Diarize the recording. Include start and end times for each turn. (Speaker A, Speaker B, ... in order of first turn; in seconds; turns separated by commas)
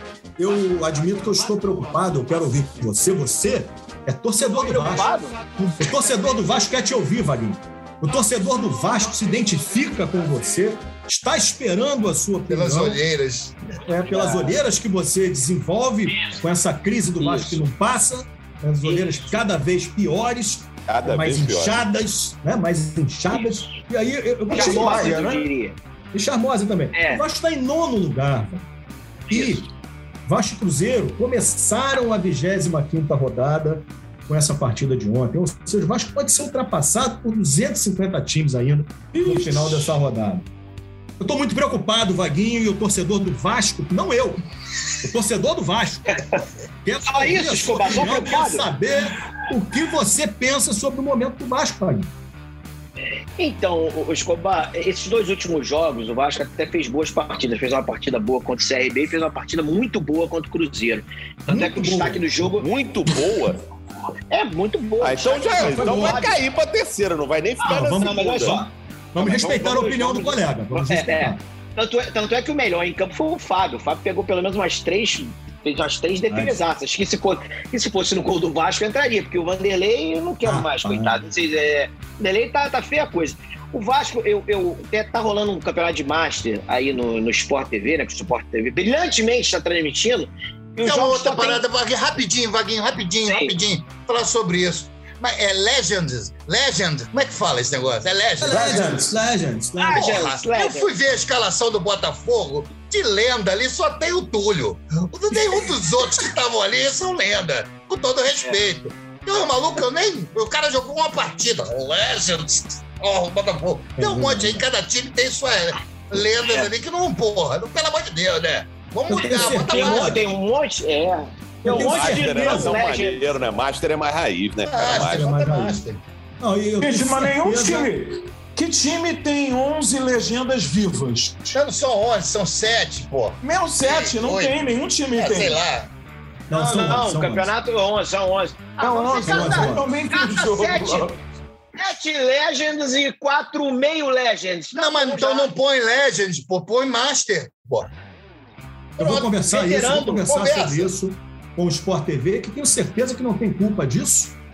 Speaker A: 0.4-13.0, Speaker B: 4.6-5.3, Speaker C: 12.5-13.6, Speaker A: 13.8-25.2, Speaker B: 14.1-14.5, Speaker D: 17.2-17.6, Speaker B: 18.8-19.1, Speaker D: 20.9-21.8, Speaker B: 24.5-25.8, Speaker E: 24.5-25.4, Speaker A: 26.1-28.6, Speaker B: 26.9-27.2, Speaker A: 29.3-29.7, Speaker B: 29.3-29.6, Speaker A: 30.3-40.5, Speaker E: 39.1-39.9, Speaker A: 41.2-44.4, Speaker A: 45.0-46.3, Speaker A: 46.8-52.1, Speaker B: 47.1-48.6, Speaker B: 53.4-62.7, Speaker A: 61.5-62.5, Speaker D: 62.6-63.6, Speaker B: 64.3-66.4, Speaker D: 65.0-68.6, Speaker A: 65.6-66.3, Speaker B: 67.6-68.7, Speaker A: 67.7-71.4, Speaker B: 69.2-91.6, Speaker A: 76.3-76.6, Speaker A: 80.4-81.1, Speaker C: 90.8-99.1, Speaker B: 93.3-93.5, Speaker A: 98.4-100.2, Speaker B: 99.8-100.9, Speaker C: 99.9-120.3, Speaker A: 114.0-114.6, Speaker A: 119.1-120.2, Speaker B: 119.2-123.2, Speaker A: 121.6-122.8, Speaker D: 121.7-125.2, Speaker C: 124.7-126.0, Speaker A: 124.9-125.8, Speaker A: 126.4-127.9, Speaker E: 126.8-131.6, Speaker C: 131.5-134.6, Speaker E: 133.4-135.6, Speaker C: 135.1-135.9, Speaker A: 136.5-137.5, Speaker B: 136.5-141.1, Speaker E: 138.8-141.2, Speaker A: 139.2-139.9, Speaker B: 141.8-145.5, Speaker C: 144.7-147.9, Speaker A: 149.0-154.3, Speaker C: 149.0-150.9, Speaker B: 149.5-150.3